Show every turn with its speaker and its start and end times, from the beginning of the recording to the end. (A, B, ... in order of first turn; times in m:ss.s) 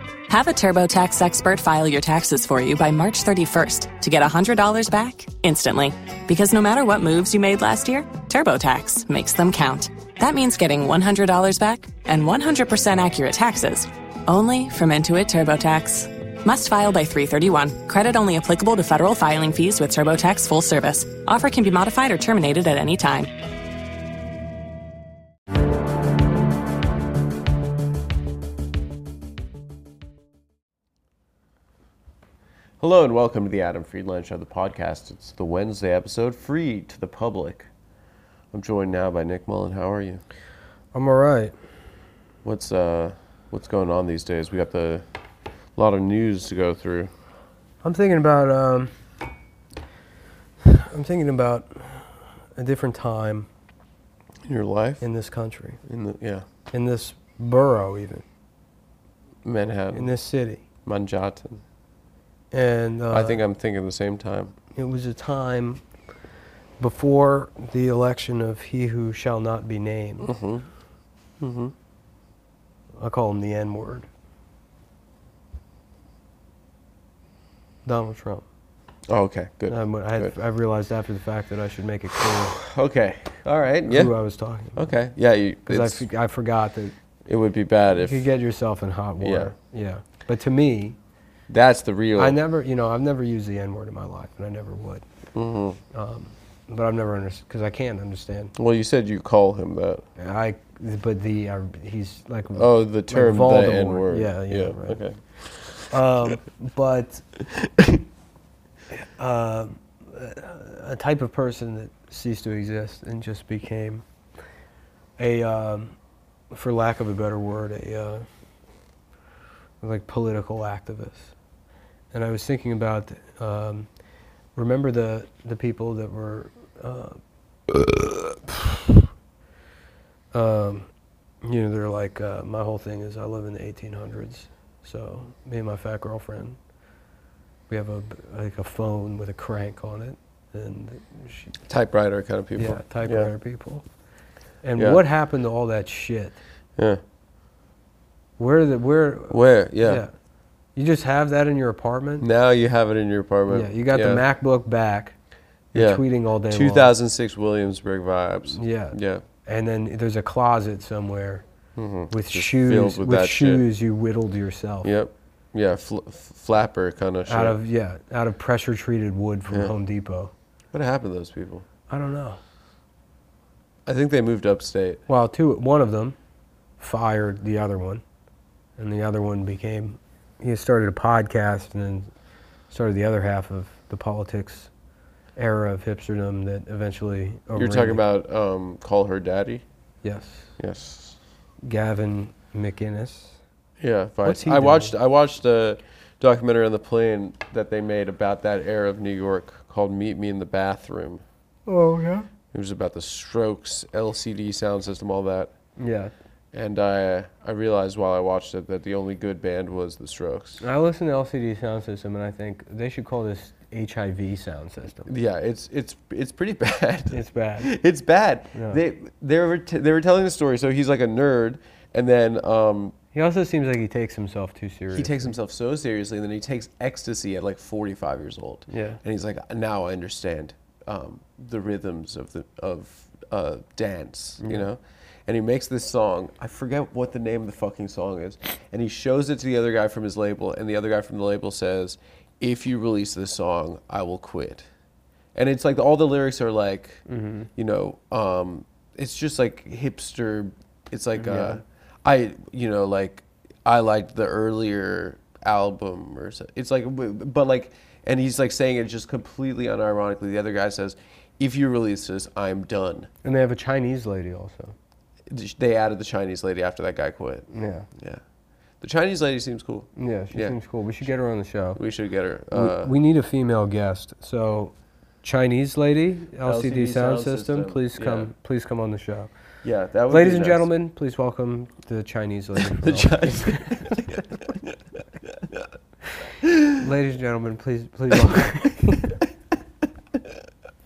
0:00.3-0:23.3 A
0:32.8-0:37.7 B
0:38.5-0:40.2 B
0:40.9-0:41.5 C
0:42.4-0:45.0 B
0:45.8-0:47.1 B
0:47.8-0:48.9 C
0:50.6-0:53.5 C
0:54.4-0:55.0 B
0:55.0-0:55.8 C
0:55.8-0:56.4 B
0:56.7-0:58.2 C
0:59.4-1:00.1 B
0:59.9-1:00.6 C
1:00.8-1:01.6 B
1:02.5-1:03.4 C
1:03.1-1:04.5 B
1:04.7-1:05.8 C
1:06.8-1:10.3 C
1:10.2-1:10.7 B
1:11.4-1:11.7 B
1:13.0-1:14.1 C
1:17.8-1:18.4 C
1:19.1-1:20.3 B
1:19.7-1:22.6 C
1:22.4-1:24.1 B
1:23.8-1:24.8 C
1:24.7-1:26.0 B
1:25.7-1:26.9 C
1:27.3-1:28.3 B
1:27.9-1:31.0 C
1:29.2-1:29.5 B
1:31.5-1:32.4 B
1:32.2-1:35.0 C
1:35.3-1:35.8 B
1:35.9-1:38.5 C
1:38.6-1:40.0 B
1:40.2-1:45.0 C
1:42.5-1:45.9 B
1:45.9-1:47.2 C
1:47.4-1:48.0 B
1:49.2-1:54.0 C
1:55.2-1:56.0 C
1:56.5-1:58.2 C
1:59.8-2:01.3 C
2:02.1-2:03.9 C
2:04.5-2:07.2 C
2:07.7-2:09.0 C
2:10.3-2:10.9 C
2:11.4-2:16.6 C
2:17.7-2:21.5 C
2:21.6-2:23.3 B
2:22.6-2:23.8 C
2:24.6-2:26.4 C
2:24.8-2:25.0 B
2:28.4-2:30.1 C
2:29.3-2:30.0 B
2:30.8-2:32.3 C
2:32.2-2:34.2 B
2:33.5-2:35.1 C
2:35.7-2:39.2 B
2:35.7-2:36.9 C
2:38.5-2:41.4 C
2:41.8-2:43.6 B
2:42.1-2:44.9 C
2:44.8-2:47.6 B
2:47.3-2:50.3 C
2:50.7-2:51.6 B
2:51.9-2:52.4 C
2:53.8-2:55.0 B
2:55.1-2:56.2 C
2:56.8-2:58.0 C
2:58.8-3:02.1 C
3:02.7-3:04.7 C
3:05.4-3:08.0 C
3:07.5-3:09.6 B
3:10.0-3:10.5 C
3:10.6-3:11.2 B
3:11.6-3:13.4 C
3:13.8-3:21.2 B
3:14.2-3:14.9 C
3:21.7-3:22.3 C
3:22.5-3:25.5 B
3:25.8-3:26.1 C
3:26.5-3:30.6 B
3:30.6-3:35.1 C
3:35.1-3:42.9 B
3:37.1-3:37.7 C
3:38.5-3:38.8 C
3:43.1-3:45.3 C
3:44.9-4:04.7 B
3:48.7-3:49.0 C
3:54.4-3:54.7 C
4:05.3-4:07.0 B
4:07.1-4:07.5 C
4:07.6-4:23.1 B
4:11.2-4:11.6 C
4:23.2-4:24.7 C
4:25.3-4:28.2 B
4:27.5-4:27.9 C
4:28.8-4:30.5 B
4:30.0-4:31.8 C
4:31.8-4:32.9 B
4:32.5-4:39.3 C
4:36.4-4:38.3 B
4:39.6-4:40.7 B
4:40.1-4:44.0 C
4:42.6-4:45.7 B
4:46.4-4:46.8 B
4:46.8-4:49.2 C
4:48.1-4:49.2 B
4:50.1-4:50.4 B